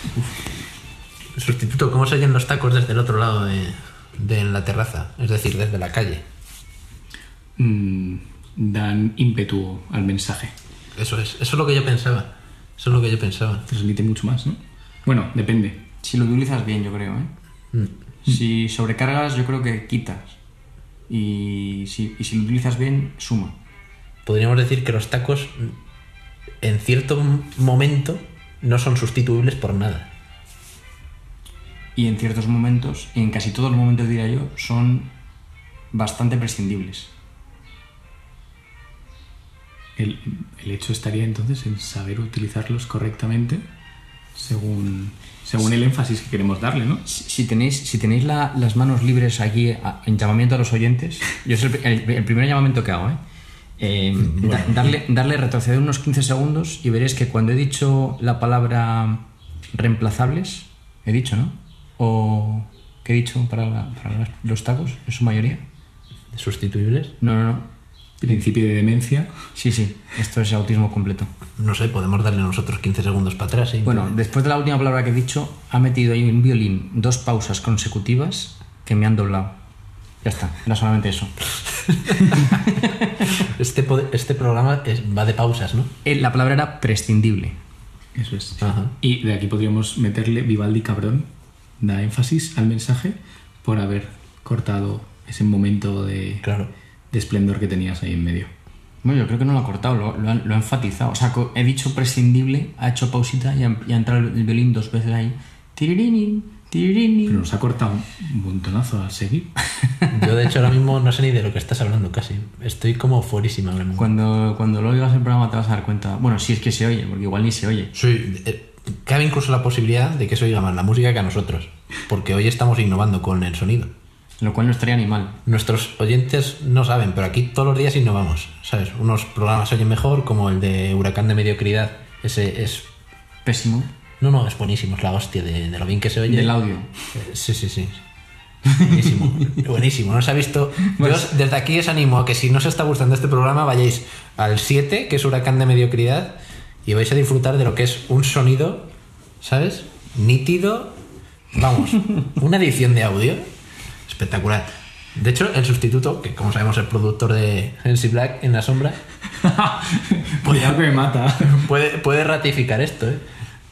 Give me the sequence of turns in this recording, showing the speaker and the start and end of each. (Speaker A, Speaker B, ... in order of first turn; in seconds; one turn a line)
Speaker A: 1.4-6.2
Speaker B: 7.6-10.5
Speaker A: 11.0-13.7
Speaker B: 13.7-15.8
Speaker C: 16.0-17.3
Speaker C: 18.2-20.4
Speaker C: 21.1-23.6
Speaker A: 24.3-25.8
Speaker A: 26.6-30.1
Speaker C: 32.0-35.1
Speaker C: 35.9-37.1
Speaker B: 40.0-43.6
Speaker B: 44.3-47.0
Speaker C: 47.1-53.2
Speaker C: 53.8-59.2
Speaker A: 54.2-54.9
Speaker C: 59.7-65.6
Speaker A: 66.3-67.2
Speaker C: 67.2-67.7
Speaker B: 68.2-69.3
Speaker C: 69.5-71.3
Speaker A: 71.6-74.1
Speaker C: 73.8-79.5
Speaker C: 80.2-81.3
Speaker A: 81.8-82.8
Speaker C: 82.3-83.2
Speaker A: 83.4-85.9
Speaker C: 86.0-87.6
Speaker B: 88.2-96.5
Speaker A: 88.6-88.9
Speaker A: 96.4-96.7
Speaker B: 97.1-98.5
Speaker C: 99.0-107.4
Speaker B: 107.3-109.5
Speaker C: 109.8-110.1
Speaker A: 110.1-114.1
Speaker C: 114.0-117.9
Speaker A: 118.0-123.9
Speaker C: 124.4-125.4
Speaker A: 125.5-132.9
Speaker C: 133.4-133.9
Speaker A: 134.2-136.5
Speaker C: 136.3-136.9
Speaker A: 137.1-138.0
Speaker C: 138.7-139.6
Speaker A: 138.8-148.9
Speaker C: 140.9-141.3
Speaker A: 149.4-151.0
Speaker A: 151.5-153.5
Speaker A: 154.1-159.0
Speaker B: 159.3-161.6
Speaker A: 160.4-160.8
Speaker A: 161.4-163.2